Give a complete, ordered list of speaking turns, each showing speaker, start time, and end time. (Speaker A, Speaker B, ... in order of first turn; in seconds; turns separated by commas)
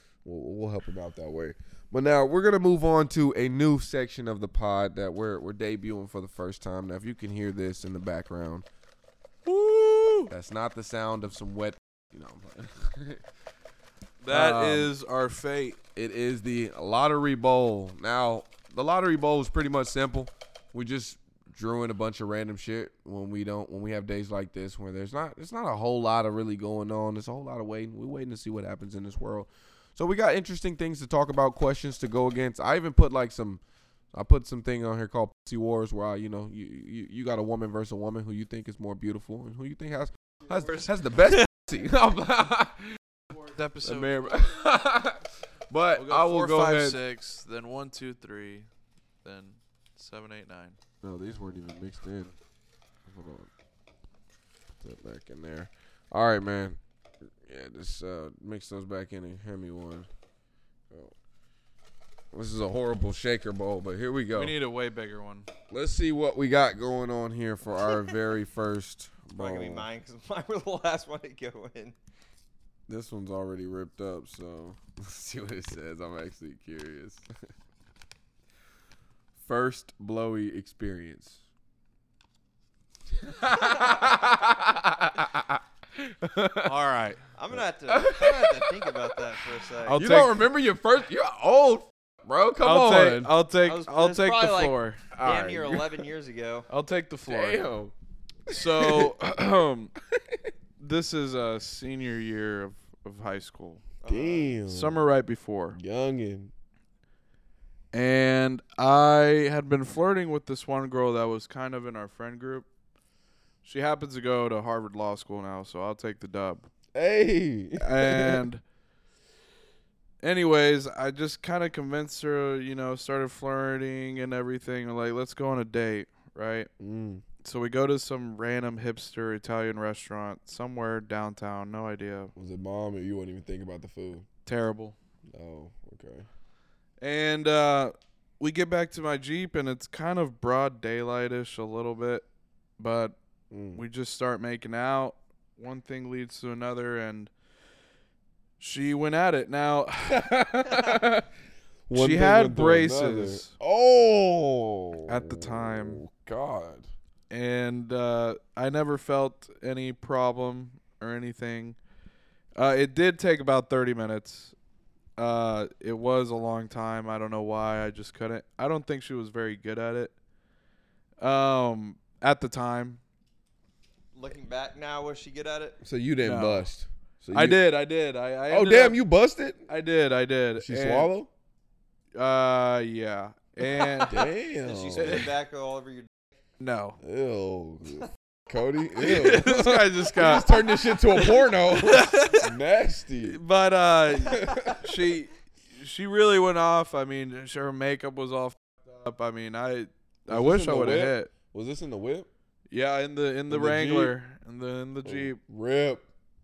Speaker A: 0.2-8.7, Speaker B: 9.4-10.3, Speaker A: 10.3-13.2, Speaker B: 14.2-15.8, Speaker A: 14.3-14.9, Speaker A: 15.9-33.6, Speaker A: 34.1-43.0, Speaker B: 43.3-44.5, Speaker A: 43.8-47.0, Speaker B: 45.9-48.7, Speaker B: 49.2-50.8, Speaker A: 51.0-52.3, Speaker A: 53.1-53.5, Speaker A: 54.8-56.8, Speaker A: 57.4-60.1, Speaker A: 62.3-64.5, Speaker B: 64.3-65.5, Speaker A: 65.7-69.9, Speaker C: 69.4-72.0, Speaker A: 72.9-77.3, Speaker A: 79.4-81.4, Speaker A: 83.1-86.7, Speaker B: 86.6-87.2, Speaker C: 87.3-90.0, Speaker A: 87.5-89.0, Speaker B: 89.8-90.4, Speaker A: 89.9-93.3, Speaker B: 92.6-95.0, Speaker C: 93.6-96.7, Speaker A: 95.1-96.0, Speaker B: 96.7-97.6, Speaker A: 97.3-97.9, Speaker A: 98.5-99.1, Speaker B: 98.5-99.9, Speaker A: 100.2-100.4, Speaker B: 100.8-103.8, Speaker C: 104.0-104.5, Speaker A: 104.1-105.0, Speaker B: 104.7-105.8, Speaker A: 105.7-106.5, Speaker B: 107.9-112.7, Speaker B: 113.6-116.7, Speaker A: 116.9-118.4, Speaker B: 117.8-118.6, Speaker B: 120.2-126.7, Speaker A: 126.8-127.2, Speaker B: 127.4-132.3, Speaker A: 132.4-134.3, Speaker B: 134.4-134.9, Speaker A: 135.3-136.3, Speaker B: 137.0-142.2, Speaker B: 142.8-143.2, Speaker A: 143.5-143.8, Speaker B: 143.7-147.3, Speaker B: 148.6-150.3, Speaker A: 150.1-151.3, Speaker A: 151.9-156.9, Speaker B: 151.9-153.5, Speaker B: 155.1-156.0, Speaker B: 157.3-161.8, Speaker B: 162.6-164.6, Speaker B: 165.2-170.1, Speaker B: 171.2-173.0, Speaker C: 174.1-175.8, Speaker A: 175.8-177.6, Speaker B: 176.2-176.7, Speaker B: 177.3-179.0, Speaker A: 178.5-179.7, Speaker B: 179.7-181.1, Speaker A: 180.6-181.3, Speaker B: 182.2-184.3, Speaker A: 184.1-185.3, Speaker C: 184.6-186.1, Speaker B: 185.0-185.3, Speaker B: 186.6-187.0, Speaker A: 187.0-193.4, Speaker B: 189.0-192.5, Speaker B: 193.2-201.3, Speaker A: 194.1-194.8, Speaker A: 200.3-202.3, Speaker B: 202.7-205.4, Speaker A: 203.5-204.2, Speaker A: 205.0-206.0